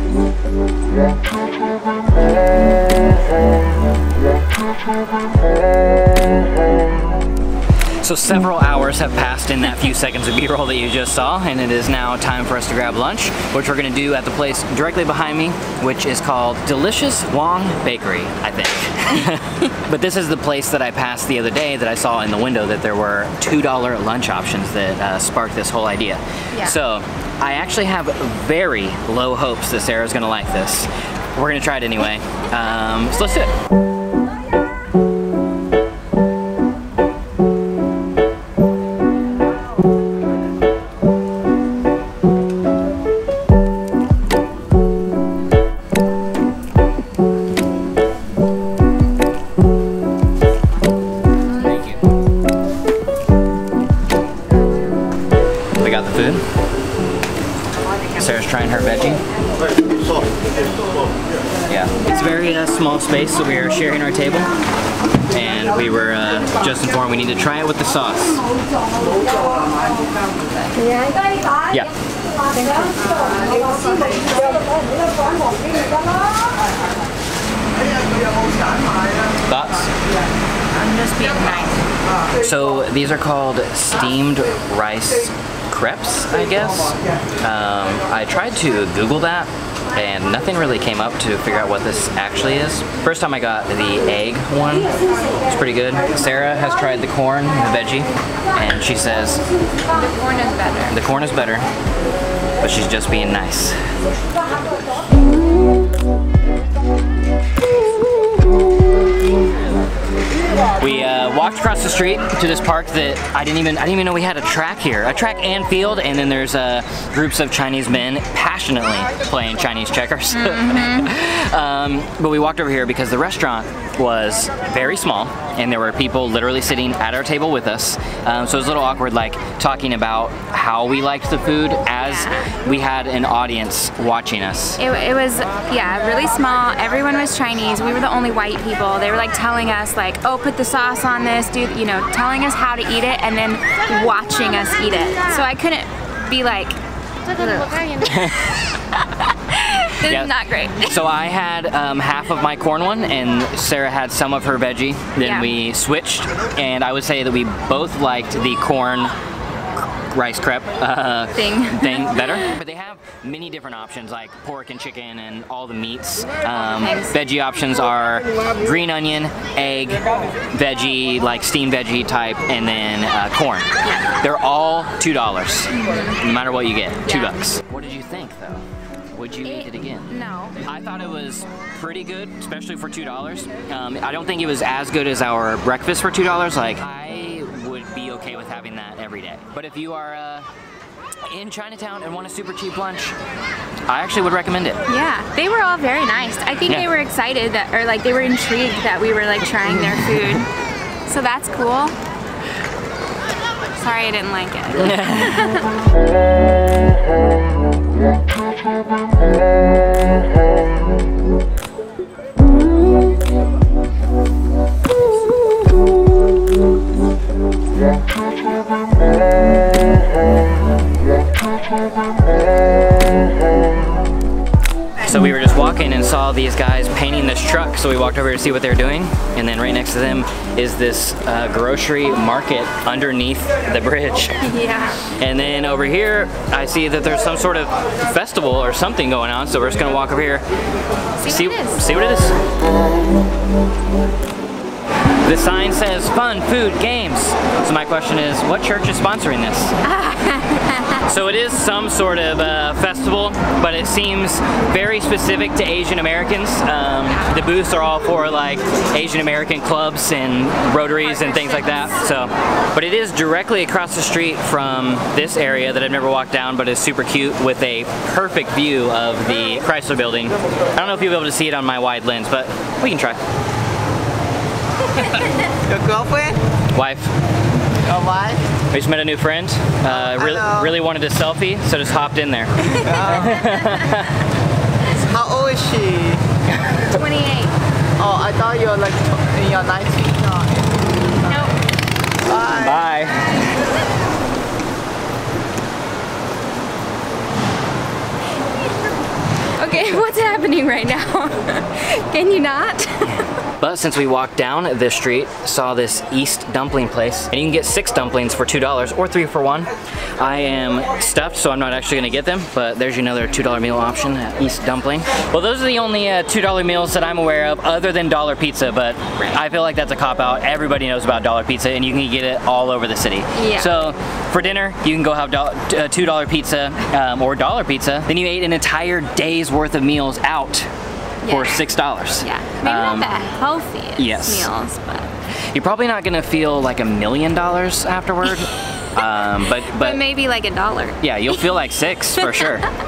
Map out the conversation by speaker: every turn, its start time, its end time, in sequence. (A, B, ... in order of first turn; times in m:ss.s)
0:08.0-0:33.5 A
0:51.6-0:52.0 A
0:55.8-0:56.4 A
0:58.2-0:59.2 A
1:01.7-1:04.5 A
1:05.3-1:08.4 A
1:13.0-1:14.4 B
1:19.4-1:19.9 A
1:20.7-1:21.9 B
1:22.4-1:34.9 A
1:35.4-1:39.4 A
1:40.0-1:41.0 B
1:40.9-1:41.6 A
1:42.6-1:43.8 A
1:50.8-2:14.8 A
2:00.3-2:01.1 B
2:12.0-2:12.5 B
2:14.8-2:28.3 B
2:28.0-2:28.7 A
2:28.9-2:30.9 B
2:30.0-2:39.1 A
2:35.2-2:35.5 B
2:39.9-3:10.5 A
2:41.3-2:42.5 B
2:46.6-2:47.1 B
2:55.7-2:56.2 B
2:57.0-2:57.3 B
2:59.4-3:00.6 B
3:11.3-3:13.2 A
3:13.9-3:14.8 A
3:14.9-3:20.5 B
3:21.0-3:22.0 B
3:23.7-3:25.7 B
3:24.8-3:25.6 A
3:45.0-3:54.5 A
3:54.4-3:55.0 B
3:55.0-4:00.4 A
4:01.2-4:01.8 B
4:01.2-4:02.4 A
4:05.2-4:09.8 A
4:09.8-4:11.0 B
4:10.9-4:33.2 A
4:21.0-4:21.9 B
4:35.6-4:36.4 C
4:36.7-4:37.1 A
4:37.8-4:38.5 C
4:38.7-4:44.2 A
4:39.9-4:40.7 C
4:42.8-4:43.5 C
4:44.9-4:46.2 C
4:46.8-4:47.6 B
4:48.0-4:50.6 C
4:51.3-4:51.5 B
4:52.2-4:52.8 C
4:52.5-4:53.6 A
4:59.6-5:03.2 B
5:03.0-5:30.7 A
5:23.3-5:23.9 B
5:31.2-5:31.6 B
5:31.3-5:33.1 A
5:32.2-5:35.1 B
5:34.0-5:34.5 A
5:35.5-5:40.0 A
5:39.6-5:41.3 B
5:41.0-5:42.7 A
5:42.2-5:42.6 B